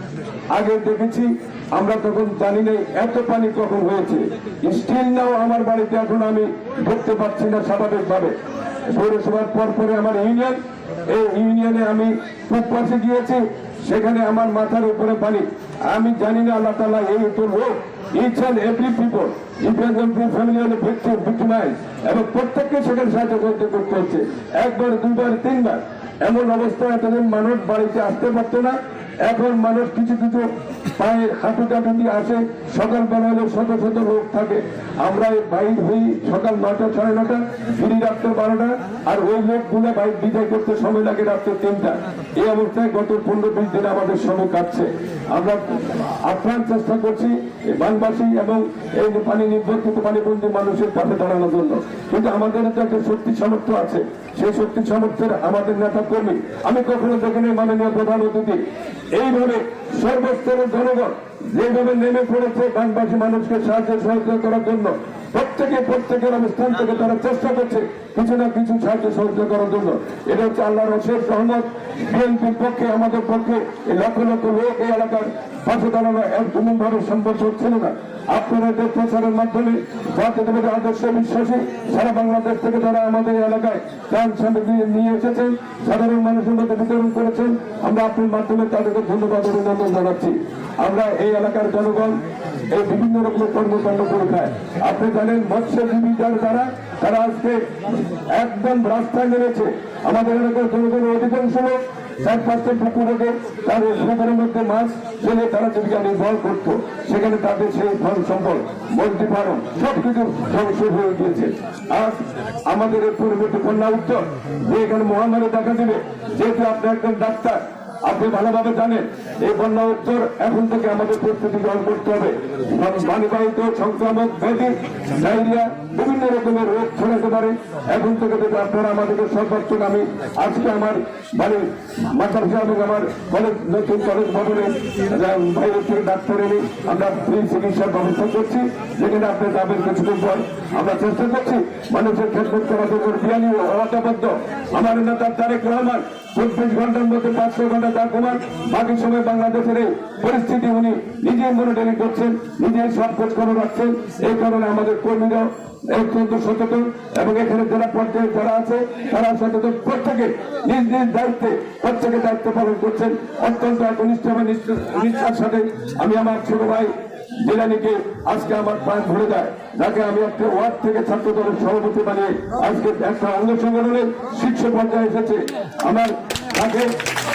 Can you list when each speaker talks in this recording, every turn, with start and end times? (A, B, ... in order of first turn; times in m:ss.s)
0:00.5-0:08.4 A
0:08.9-2:57.0 A